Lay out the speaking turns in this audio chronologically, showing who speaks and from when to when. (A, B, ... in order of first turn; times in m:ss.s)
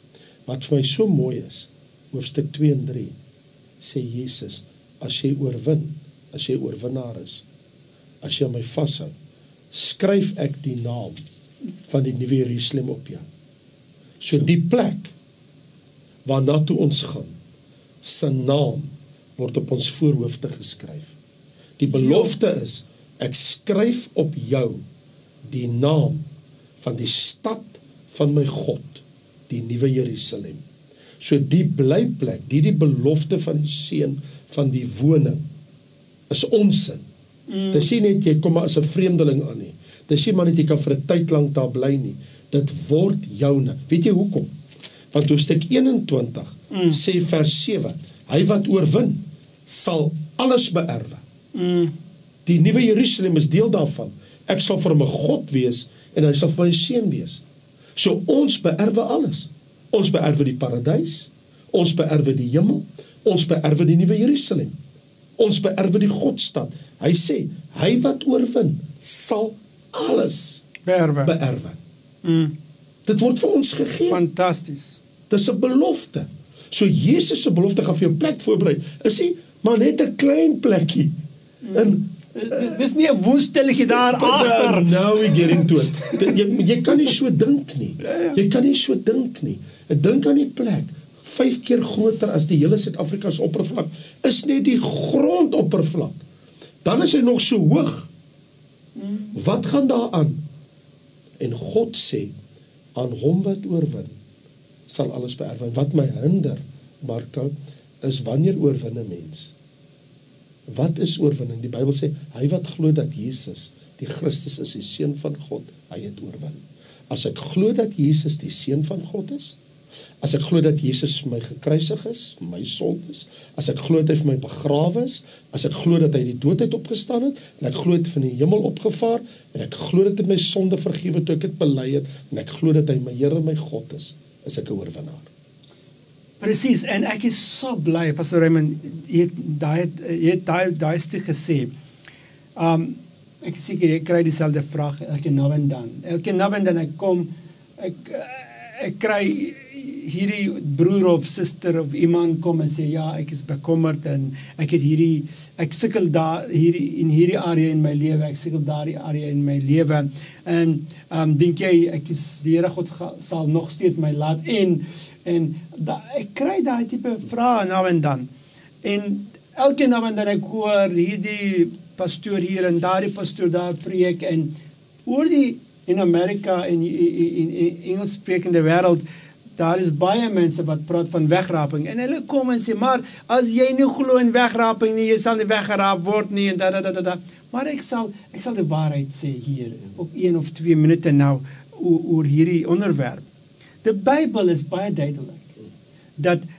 0:00.5-0:03.2 A
0:03.8-0:07.4 A
0:08.2-0:09.1 A
0:09.7-0:11.2 A
0:11.9-0:13.2 A
0:14.2-0:15.1 A
0:16.2-0:17.4 A
0:18.0-0:21.1 A
0:21.8-0:24.8 A
0:21.9-0:22.4 B
0:25.5-0:26.2 A
0:26.8-0:30.6 A
0:31.2-0:35.4 A
0:36.3-0:37.0 A
0:37.5-0:37.9 B
0:37.7-0:44.5 A
0:45.1-0:51.2 A
0:46.7-0:47.0 B
0:51.5-0:52.0 B
0:52.4-0:57.4 A
0:58.0-1:04.8 A
1:05.4-1:10.7 A
1:10.8-1:11.4 B
1:11.2-1:11.8 A
1:12.2-1:12.6 B
1:13.1-1:14.2 A
1:14.1-1:15.0 B
1:15.3-1:21.2 A
1:21.6-1:26.2 B
1:21.7-1:22.6 A
1:23.9-1:36.2 A
1:28.0-1:28.4 B
1:36.8-1:38.1 A
1:39.0-1:39.4 B
1:39.4-1:40.4 A
1:41.4-1:42.3 A
1:43.0-1:44.2 A
1:44.9-1:49.5 A
1:50.7-1:59.6 A
2:00.2-2:15.3 A
2:16.4-2:21.7 B
2:22.6-2:48.3 B
2:48.8-2:54.5 B
2:55.0-2:59.0 B
2:59.6-3:13.3 B
3:13.8-3:15.5 B
3:16.2-3:16.4 B